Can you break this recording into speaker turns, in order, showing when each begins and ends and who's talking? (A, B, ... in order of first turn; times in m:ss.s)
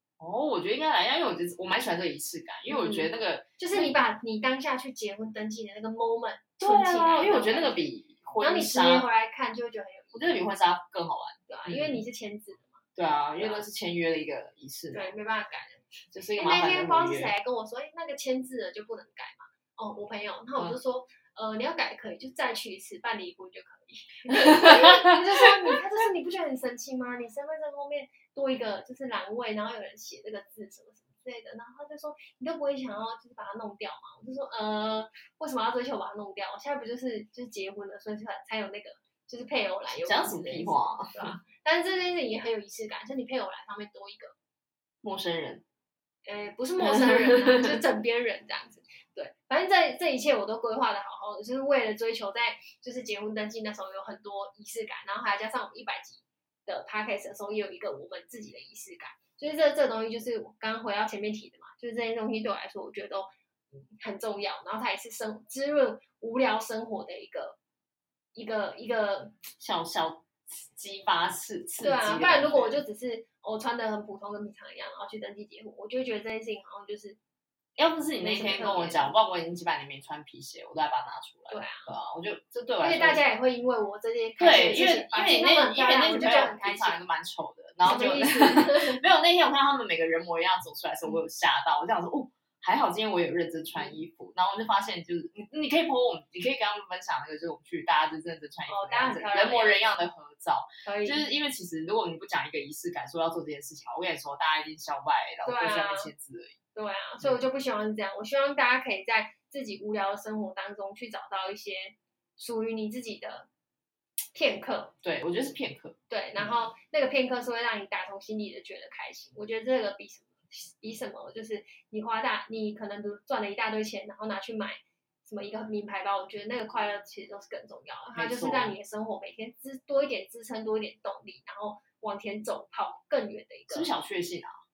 0:00.2-0:03.9 A
0:02.7-0:07.9 B
0:06.6-0:09.1 A
0:08.4-0:10.4 B
0:10.1-0:12.0 A
0:11.5-0:12.8 B
0:13.0-0:15.1 A
0:13.4-0:13.6 B
0:14.9-0:44.3 B
0:16.1-0:17.3 A
0:24.4-0:25.0 A
0:39.9-0:41.4 A
0:45.0-0:45.6 A
0:46.2-1:03.3 B
0:46.8-0:47.8 A
1:04.0-1:07.6 B
1:08.4-1:09.4 B
1:09.6-1:12.8 A
1:11.8-1:17.2 B
1:17.8-1:23.2 A
1:18.2-1:19.1 B
1:21.5-1:21.9 B
1:22.8-1:27.0 B
1:24.4-1:46.6 A
1:27.8-1:29.0 B
1:38.7-1:39.8 B
1:40.8-1:41.2 B
1:45.4-1:46.1 B
1:46.7-1:53.5 B
1:54.3-1:54.9 B
1:55.0-1:56.6 A
1:56.1-2:13.9 B
2:08.1-2:08.7 A
2:13.7-2:14.5 A